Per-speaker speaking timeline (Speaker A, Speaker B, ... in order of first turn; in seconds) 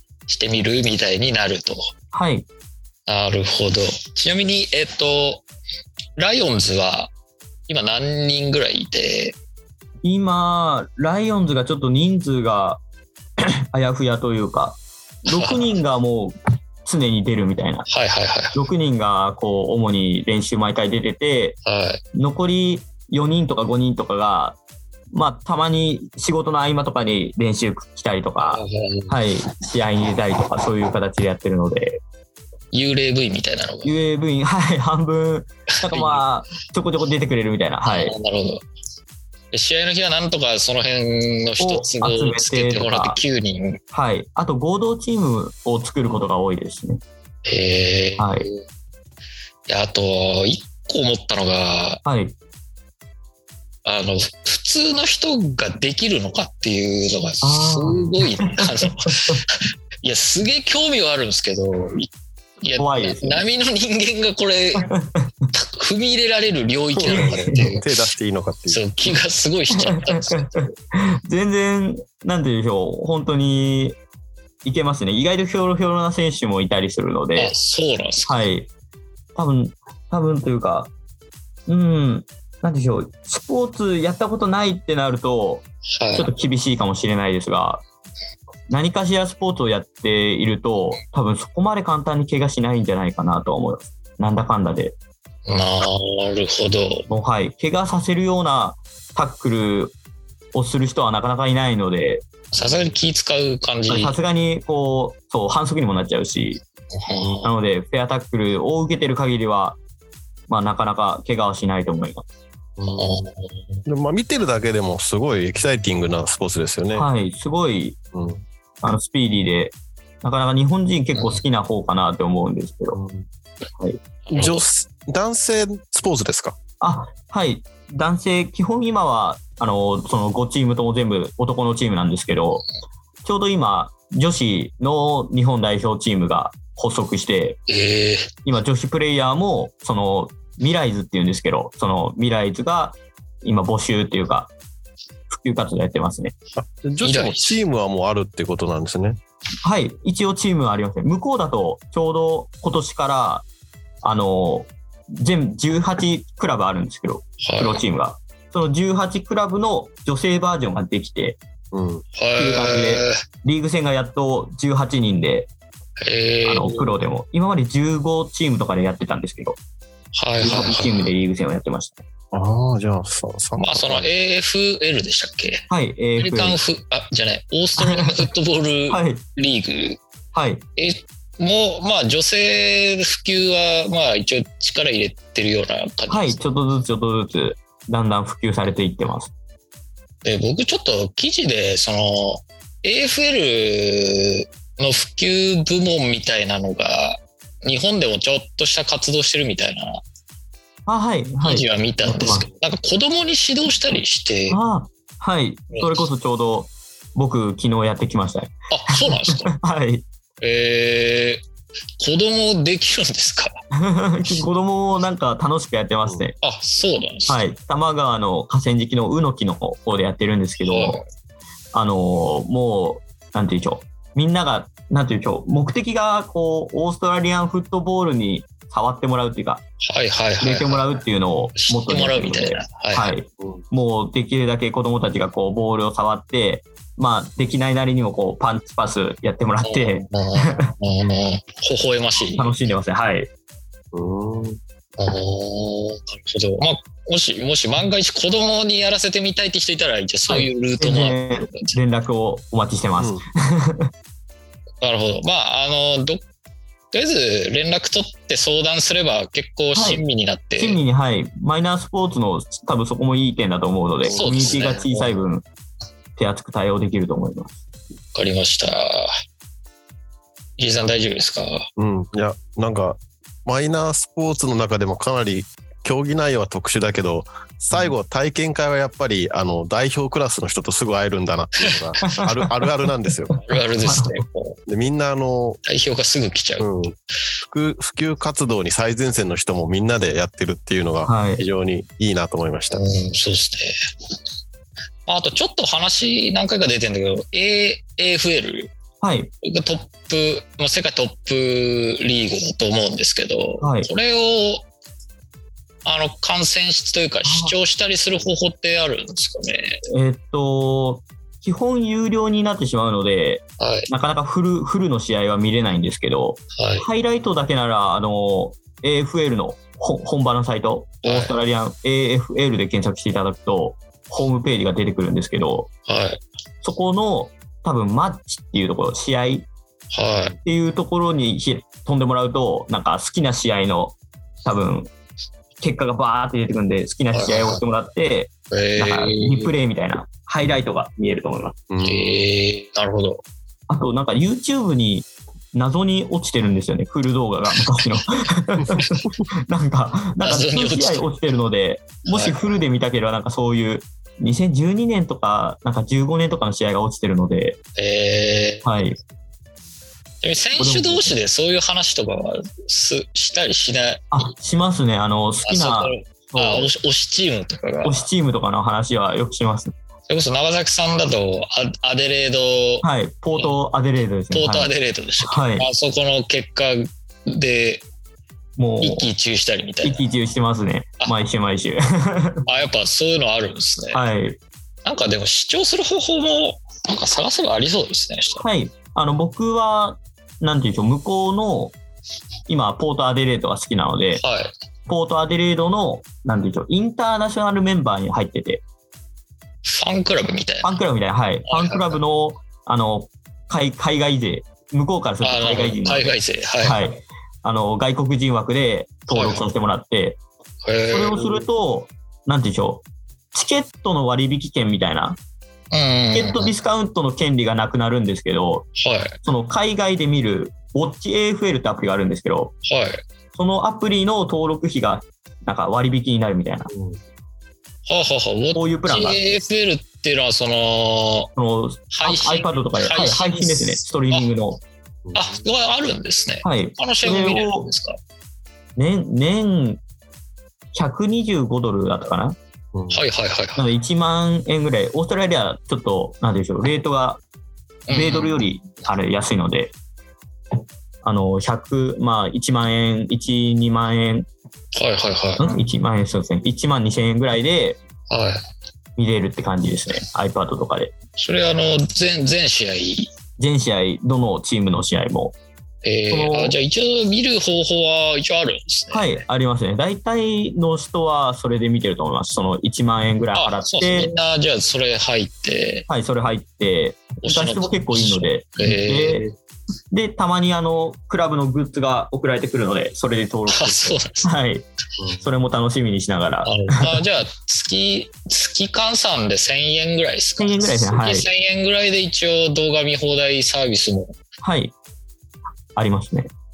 Speaker A: 0.3-1.9, 3.1-5.4, 6.2-7.1, 7.7-9.3, 15.3-15.6, 17.9-18.6, 21.6-22.0, 28.4-29.2, 32.7-34.0, 35.8-36.2, 37.9-38.6, 39.5-43.8, 47.5-48.6, 49.7-52.0, 53.8-62.1, 62.6-64.9, 65.5-67.8, 68.7-70.6, 77.3-78.4, 86.0-86.3, 95.5-97.1, 102.5-104.2, 106.9-107.5, 112.9-113.8, 121.1-121.4, 124.2-124.7, 137.7-138.3, 147.0-147.6, 157.4-157.8, 162.2-163.2, 166.0-167.0, 170.1-171.1, 173.6-175.6, 176.2-180.0, 180.8-186.4, 190.2-200.0, 201.4-204.6, 205.7-206.0, 208.7-209.5, 210.4-211.4, 212.0-213.5, 216.4-217.4, 220.6-221.0, 229.8-231.0, 231.5-233.1, 239.6-242.6, 245.0-251.8, 254.8-256.2, 256.9-260.8, 264.1-265.2, 268.1-269.1, 270.6-271.7, 283.4-284.6, 285.6-286.7, 292.7-293.7, 295.1-298.7, 299.4-304.6, 305.8-309.8, 313.6-313.9, 316.6-316.9, 321.0-321.4, 325.9-326.2, 329.9-330.4, 337.1-337.6, 338.5-339.5, 341.8-343.2, 350.2-351.1, 352.1-352.4, 357.8-358.7, 360.2-364.1, 365.4-368.1, 370.1-373.5, 374.3-377.8, 378.8-380.0, 382.4-384.0, 384.8-388.4, 394.2-394.5, 399.6-400.8, 401.4-402.0, 405.2-406.8, 409.1-409.4, 410.6-411.4, 415.7-416.5, 418.8-419.2, 422.6-423.0, 427.9-431.3, 431.9-434.3, 435.1-438.0, 442.9-443.6, 447.9-448.4, 454.7-455.5, 458.1-458.4, 461.2-463.1, 465.8-469.2, 473.3-475.9, 477.2-479.2, 483.5-484.3, 486.4-494.1
Speaker B: 2.1-2.5, 10.0-12.8, 13.7-17.9, 18.5-21.6, 22.1-24.6, 25.1-32.0, 33.8-38.1, 41.6-43.2, 43.9-47.0, 48.2-48.5, 52.0-52.3, 57.4-59.4, 62.8-63.4, 64.8-65.3, 67.1-67.8, 69.7-74.0, 74.6-77.5, 78.3-78.7, 79.3-80.9, 81.7-87.8, 88.7-95.0, 97.1-99.9, 100.5-102.2, 103.9-106.6, 107.4-109.8, 110.5-112.2, 116.9-118.0, 118.8-123.0, 126.8-132.6, 133.2-137.6, 138.4-144.5, 145.3-146.3, 149.6-153.4, 154.0-161.4, 162.4-165.5, 166.4-169.6, 170.4-172.0, 175.7-176.6, 177.8-178.3, 178.9-179.2, 180.3-180.6, 186.1-189.3, 200.9-202.5, 204.5-210.1, 213.8-216.3, 217.3-221.0, 221.7-229.6, 230.4-240.7, 242.3-243.3, 250.3-253.9, 259.7-260.0, 260.6-265.4, 266.1-267.6, 282.1-282.3, 283.8-284.2, 291.1-291.4, 299.0-299.3, 303.6-303.9, 307.2-307.5, 309.9-325.7, 326.6-329.5, 330.4-334.9, 335.6-341.6, 343.7-357.6, 358.6-358.9, 360.6-361.1, 364.1-366.7, 367.8-369.7, 372.8-375.7, 378.6-379.1, 379.8-382.4, 383.9-384.4, 388.4-391.7, 392.5-394.2, 394.9-398.6, 400.6-410.2, 410.9-415.2, 416.1-418.7, 419.2-422.5, 423.3-426.7, 428.5-429.2, 431.4-434.6, 436.4-437.7, 438.8-439.8, 440.7-442.4, 443.6-447.2, 447.9-449.7, 451.0-454.3, 455.4-457.8, 459.0-460.9, 463.4-465.3, 466.1-466.6, 468.9-474.1, 475.9-479.3, 479.9-484.6, 485.2-487.0, 490.4-491.3, 494.4-494.7, 495.8-496.3
Speaker C: 66.9-68.8, 102.6-102.9, 112.8-113.2, 113.8-117.1, 118.1-118.4, 122.9-123.3, 124.3-126.5, 146.6-149.2, 161.7-162.0, 172.3-174.1, 243.9-244.6, 253.0-253.2, 264.0-264.6, 271.8-283.4, 284.7-285.6, 286.6-292.8, 341.7-342.2, 426.7-427.0, 435.1-435.4, 442.7-443.0, 485.0-485.2